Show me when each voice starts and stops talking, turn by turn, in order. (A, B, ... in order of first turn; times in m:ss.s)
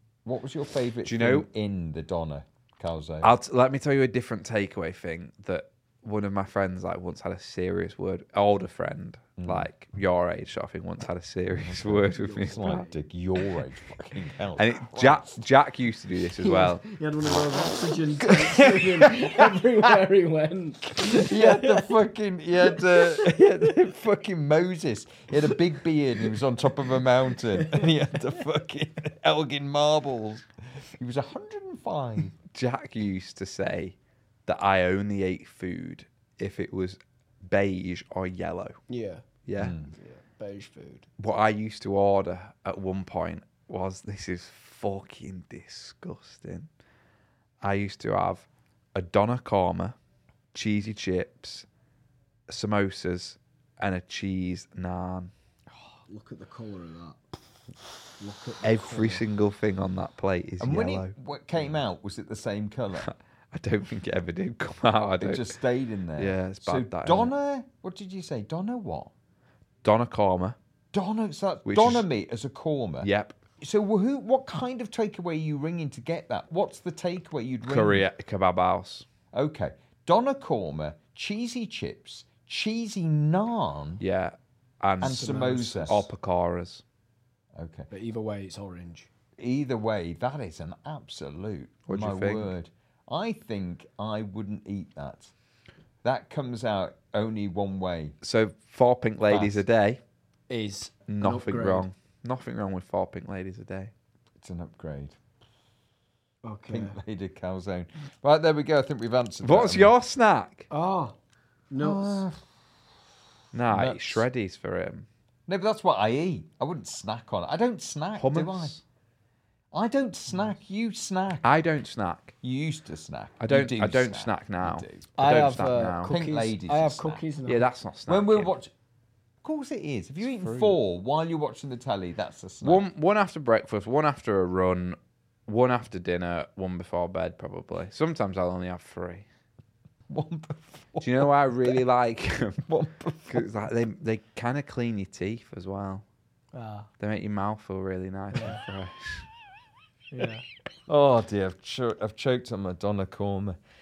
0:00.2-0:03.3 A
0:01.0-0:01.5 B
0:03.2-0:12.8 B
0:09.4-0:09.7 A
0:11.5-0:15.4 A
0:12.1-0:13.0 C
0:14.6-0:16.8 B
0:16.4-0:21.9 C
0:18.3-0:19.4 A
0:20.9-0:32.3 A
0:22.7-0:23.5 C
0:27.6-0:27.9 C
0:32.5-0:34.0 B
0:34.5-0:38.8 B
0:38.9-0:39.2 C
0:39.5-0:39.8 B
0:39.6-0:39.9 A
0:40.0-0:41.1 C
0:41.2-0:46.7 B
0:47.6-0:50.0 B
0:50.5-0:51.7 B
0:52.5-0:55.3 B
0:55.7-0:57.2 C
0:58.2-0:59.2 C
0:58.6-1:01.1 B
1:00.6-1:03.1 A
1:03.0-1:05.5 B
1:05.2-1:09.1 A
1:06.2-1:07.3 B
1:09.8-1:10.6 B
1:10.9-1:13.1 A
1:11.7-1:12.1 B
1:13.0-1:13.4 B
1:13.6-1:18.0 A
1:17.6-1:19.1 B
1:19.3-1:24.0 A
1:24.0-1:26.8 B
1:25.0-1:26.0 A
1:25.0-1:26.0 C
1:27.6-1:27.9 A
1:27.9-1:29.1 C
1:29.4-1:35.3 A
1:31.9-1:32.5 B
1:36.0-1:38.2 A
1:38.2-1:40.0 B
1:39.3-1:39.6 A
1:40.5-1:41.8 C
1:41.1-1:43.9 B
1:44.4-1:45.2 A
1:46.4-1:47.0 C
1:46.7-1:49.9 A
1:49.4-1:50.7 B
1:50.7-1:51.2 C
1:51.7-1:52.2 C
1:51.8-1:52.4 A
1:53.5-1:55.1 B
1:53.8-1:54.2 C
1:55.5-1:58.8 A
1:58.2-1:58.8 B
1:59.7-2:01.5 A
2:01.4-2:02.4 B
2:02.4-2:05.1 A
2:03.4-2:06.1 B
2:05.2-2:07.7 C
2:06.0-2:07.2 A
2:07.5-2:08.5 B
2:08.1-2:08.7 A
2:09.4-2:12.8 A
2:10.2-2:10.8 B
2:12.6-2:19.3 B
2:20.1-2:21.8 A
2:21.0-2:22.6 B
2:22.6-2:23.5 A
2:23.3-2:26.0 B
2:26.5-2:26.9 C
2:27.0-2:29.2 B
2:28.3-2:28.6 C
2:30.1-2:30.4 C
2:30.9-2:33.6 A